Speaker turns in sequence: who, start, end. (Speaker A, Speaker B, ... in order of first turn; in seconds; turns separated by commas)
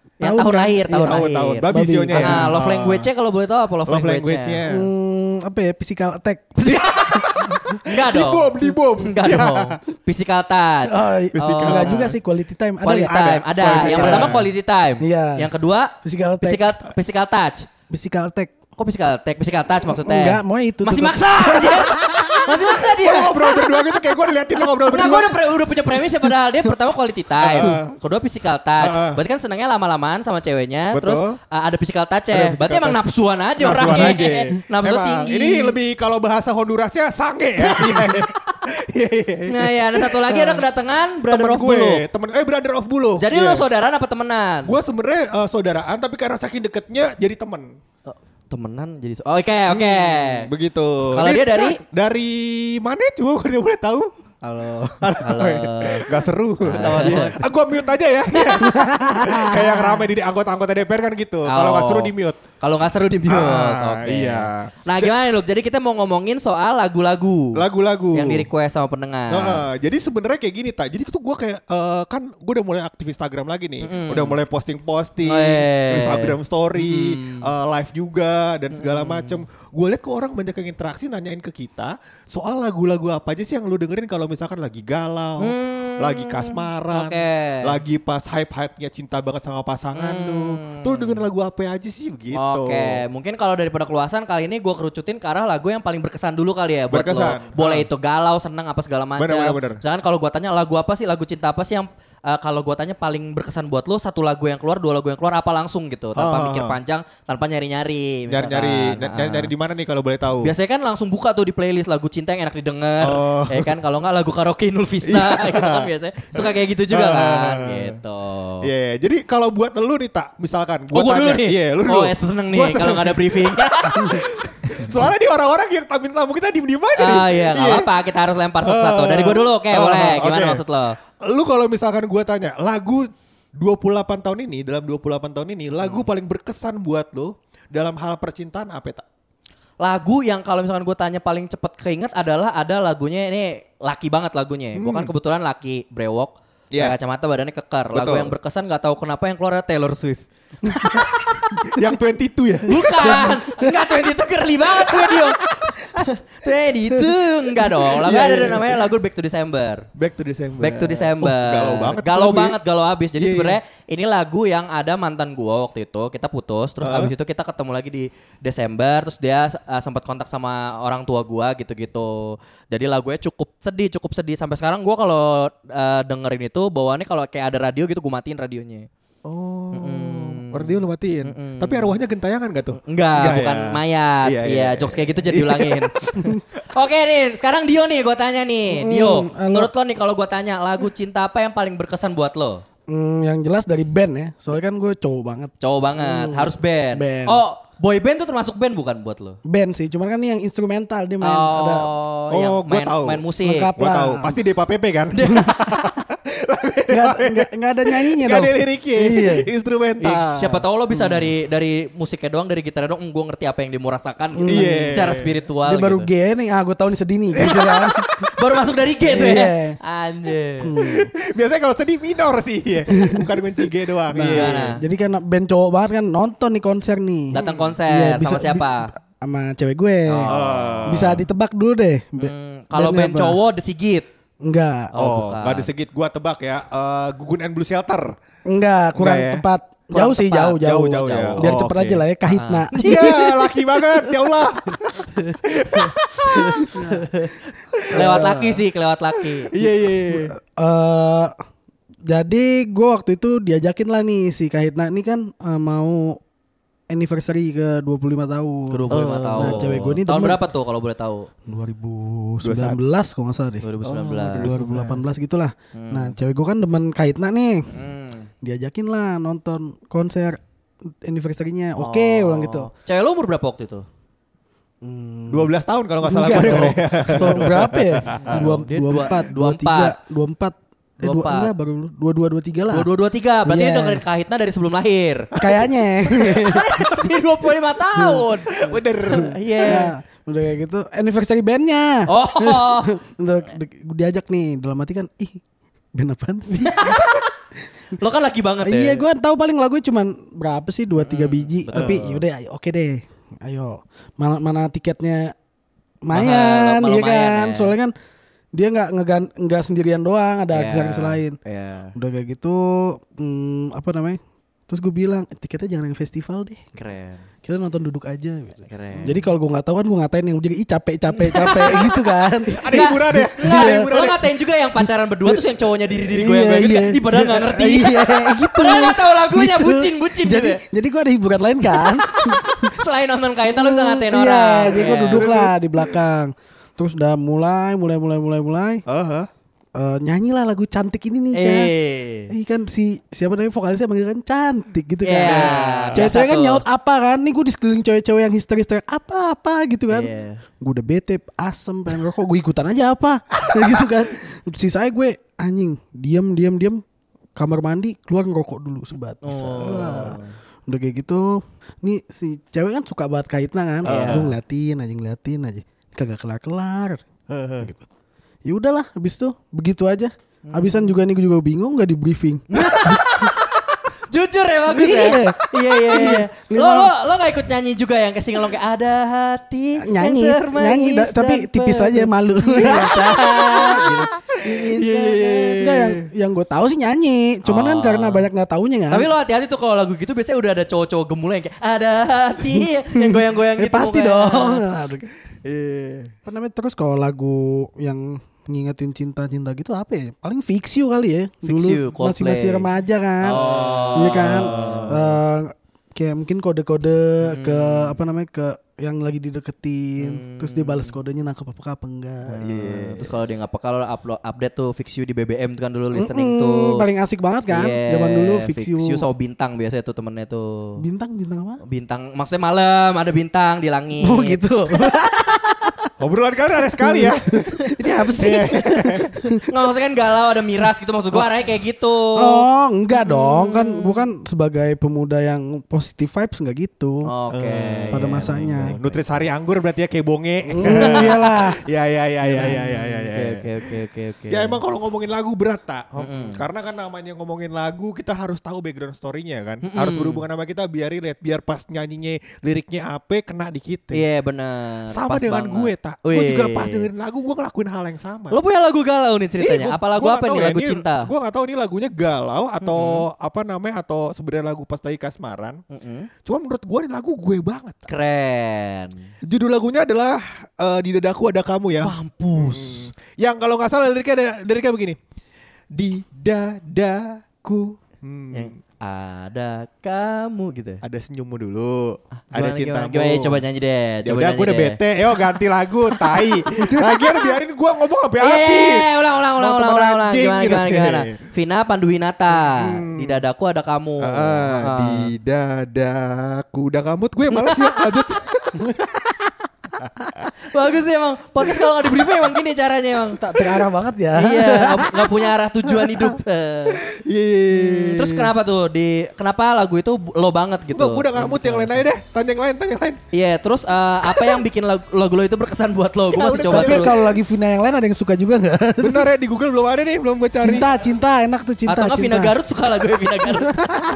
Speaker A: 0.2-2.5, Speaker B: 0.2-4.6, Speaker C: 1.0-3.1, Speaker C: 3.9-4.9, Speaker A: 4.7-6.8, Speaker C: 6.7-9.8, Speaker B: 6.7-7.2, Speaker B: 7.8-12.0, Speaker A: 10.8-14.4, Speaker C: 11.3-12.2, Speaker B: 12.8-17.7, Speaker C: 13.7-14.5, Speaker A: 15.0-15.5, Speaker A: 16.0-16.7, Speaker A: 17.9-18.6, Speaker B: 18.8-23.6, Speaker A: 19.8-21.7, Speaker C: 21.6-25.4, Speaker B: 24.9-35.8, Speaker C: 27.4-27.9, Speaker C: 28.8-29.2, Speaker C: 30.9-31.4, Speaker C: 32.3-33.0, Speaker C: 33.6-40.6, Speaker A: 33.6-34.4, Speaker B: 37.6-38.2, Speaker B: 39.5-42.0, Speaker C: 41.3-43.6, Speaker B: 43.2-44.8, Speaker C: 44.6-47.7, Speaker B: 48.0-50.5, Speaker C: 49.7-62.4, Speaker B: 51.1-51.8, Speaker B: 55.2-57.4, Speaker B: 58.4-59.6, Speaker B: 61.5-67.6, Speaker C: 63.3-65.1, Speaker C: 67.5-68.5, Speaker B: 68.1-69.6, Speaker C: 69.3-93.0, Speaker B: 73.8-74.4, Speaker B: 75.2-77.4, Speaker B: 78.8-79.4, Speaker B: 85.4-87.7, Speaker B: 90.0-91.2, Speaker B: 92.3-109.5, Speaker C: 96.9-97.9, Speaker C: 99.2-99.8, Speaker C: 106.2-106.7, Speaker C: 108.3-110.5, Speaker B: 110.4-118.6, Speaker C: 113.0-113.7, Speaker C: 115.1-117.9, Speaker C: 118.6-127.9, Speaker B: 120.9-124.2, Speaker B: 127.0-131.0, Speaker C: 128.7-130.6, Speaker C: 131.2-139.0, Speaker B: 135.8-136.1, Speaker B: 139.8-151.1, Speaker C: 144.8-145.1, Speaker C: 147.9-148.3, Speaker C: 150.9-153.4, Speaker B: 152.7-155.4, Speaker C: 154.9-155.9, Speaker B: 155.9-159.9, Speaker C: 157.9-158.8, Speaker C: 159.9-162.6, Speaker B: 160.6-178.9, Speaker C: 163.2-163.6, Speaker C: 166.8-167.1, Speaker C: 179.2-186.4, Speaker B: 179.7-181.9, Speaker B: 182.8-192.6, Speaker A: 188.7-189.7, Speaker A: 192.9-197.4, Speaker B: 195.6-199.4, Speaker A: 199.4-201.9, Speaker B: 201.2-203.7, Speaker C: 202.3-210.6, Speaker A: 203.4-204.4, Speaker B: 205.1-205.4, Speaker A: 206.9-209.5, Speaker B: 210.0-216.1, Speaker A: 210.9-211.3, Speaker A: 214.3-218.1, Speaker C: 214.5-215.3, Speaker C: 217.4-217.9, Speaker B: 217.4-217.8, Speaker B: 218.3-220.7, Speaker A: 219.0-219.8, Speaker A: 220.6-221.1, Speaker C: 220.7-224.8, Speaker A: 224.1-230.3, Speaker B: 224.3-224.8, Speaker B: 227.3-228.9, Speaker B: 230.1-231.2, Speaker C: 230.3-231.2, Speaker A: 230.8-233.4, Speaker B: 232.2-234.1, Speaker A: 234.4-234.9, Speaker B: 234.9-235.7, Speaker C: 235.0-238.1, Speaker A: 238.4-243.6, Speaker C: 238.9-239.5, Speaker B: 239.9-241.6, Speaker C: 240.6-242.0, Speaker B: 242.3-243.1, Speaker C: 242.8-246.9, Speaker B: 245.1-247.4, Speaker A: 246.6-247.0, Speaker C: 247.8-248.2, Speaker A: 247.9-248.6, Speaker B: 247.9-249.5, Speaker C: 249.3-250.3, Speaker A: 249.6-251.3, Speaker A: 252.1-256.2, Speaker A: 256.9-260.4, Speaker B: 258.7-261.3, Speaker C: 258.9-259.9, Speaker A: 261.5-263.6, Speaker C: 262.4-262.8, Speaker B: 263.6-264.6, Speaker C: 263.8-265.0, Speaker A: 264.4-267.6, Speaker B: 265.7-266.1, Speaker B: 267.7-268.3, Speaker A: 268.4-270.4, Speaker A: 271.0-272.7, Speaker B: 271.8-273.9, Speaker A: 274.8-275.5, Speaker C: 275.3-278.5, Speaker A: 276.0-282.9, Speaker B: 278.2-279.9, Speaker B: 281.0-281.5, Speaker B: 282.7-285.3, Speaker A: 283.4-284.0, Speaker A: 285.4-286.7, Speaker B: 286.2-289.9, Speaker A: 287.9-288.3, Speaker C: 288.5-289.8, Speaker A: 289.1-295.4, Speaker B: 292.1-292.9, Speaker A: 295.9-297.0, Speaker B: 296.5-297.3, Speaker B: 298.0-299.1, Speaker A: 298.6-305.3, Speaker B: 300.9-302.2, Speaker C: 301.7-302.1, Speaker A: 306.0-307.9, Speaker B: 306.1-307.7, Speaker A: 308.5-311.4, Speaker B: 310.5-311.9, Speaker A: 311.9-316.7, Speaker B: 316.8-317.2, Speaker A: 317.4-324.1, Speaker B: 318.6-319.2, Speaker B: 321.1-321.9, Speaker C: 322.5-324.2, Speaker B: 322.7-330.6, Speaker A: 326.1-332.7, Speaker B: 331.7-335.3, Speaker A: 333.5-338.8, Speaker C: 334.7-335.9, Speaker C: 338.9-339.3, Speaker A: 339.7-341.7, Speaker B: 341.3-342.3, Speaker A: 342.3-356.8, Speaker B: 345.0-346.6, Speaker C: 345.2-346.1, Speaker B: 349.9-350.4, Speaker A: 357.4-367.0, Speaker B: 359.2-360.3, Speaker C: 359.6-359.9, Speaker B: 363.8-364.3, Speaker C: 363.8-364.3, Speaker C: 367.3-367.7, Speaker A: 367.6-367.9, Speaker A: 368.4-373.3, Speaker B: 370.4-371.0, Speaker B: 372.5-385.6, Speaker A: 374.7-376.9, Speaker A: 379.8-384.1, Speaker C: 382.7-386.0, Speaker A: 385.6-389.1, Speaker B: 387.4-388.2, Speaker B: 388.9-394.7, Speaker A: 392.9-395.1, Speaker C: 395.4-396.1, Speaker A: 396.2-413.1, Speaker B: 401.4-402.7, Speaker B: 403.2-405.0, Speaker C: 403.3-405.1, Speaker B: 407.2-408.0, Speaker B: 410.0-410.9, Speaker B: 412.3-416.8, Speaker A: 415.9-419.1, Speaker B: 417.5-420.8, Speaker A: 420.8-421.6, Speaker B: 421.6-424.4, Speaker A: 424.0-425.7, Speaker C: 426.0-429.1, Speaker A: 426.8-429.4, Speaker B: 429.5-434.1, Speaker A: 432.1-437.1, Speaker B: 437.1-439.1, Speaker C: 437.3-443.5, Speaker A: 437.9-438.8, Speaker A: 440.5-441.6, Speaker B: 440.7-441.3, Speaker B: 442.2-444.6, Speaker C: 444.3-454.0, Speaker B: 446.0-446.4, Speaker B: 449.6-450.2, Speaker B: 453.9-456.9, Speaker C: 454.9-458.4, Speaker B: 458.3-461.1, Speaker C: 459.4-465.6, Speaker B: 462.6-463.0, Speaker B: 465.7-466.1, Speaker C: 466.2-467.8, Speaker B: 467.9-469.1, Speaker C: 469.3-475.0, Speaker B: 471.8-472.9, Speaker C: 475.7-478.5, Speaker B: 478.3-480.8, Speaker C: 480.8-483.4, Speaker B: 482.2-484.8, Speaker C: 484.0-488.9, Speaker B: 486.1-487.3, Speaker B: 488.2-495.1, Speaker C: 489.4-491.2, Speaker C: 492.3-493.2, Speaker C: 494.0-498.8, Speaker B: 497.4-497.6, Speaker C: 499.8-500.3, Speaker B: 500.5-503.2, Speaker A: 503.1-504.9, Speaker B: 504.1-506.8, Speaker C: 506.7-508.3, Speaker B: 507.5-511.9, Speaker C: 510.7-513.0, Speaker B: 513.1-517.1, Speaker C: 514.1-514.4, Speaker A: 516.1-519.0, Speaker C: 516.1-517.1, Speaker C: 518.8-520.7, Speaker A: 520.4-522.3, Speaker B: 521.7-523.6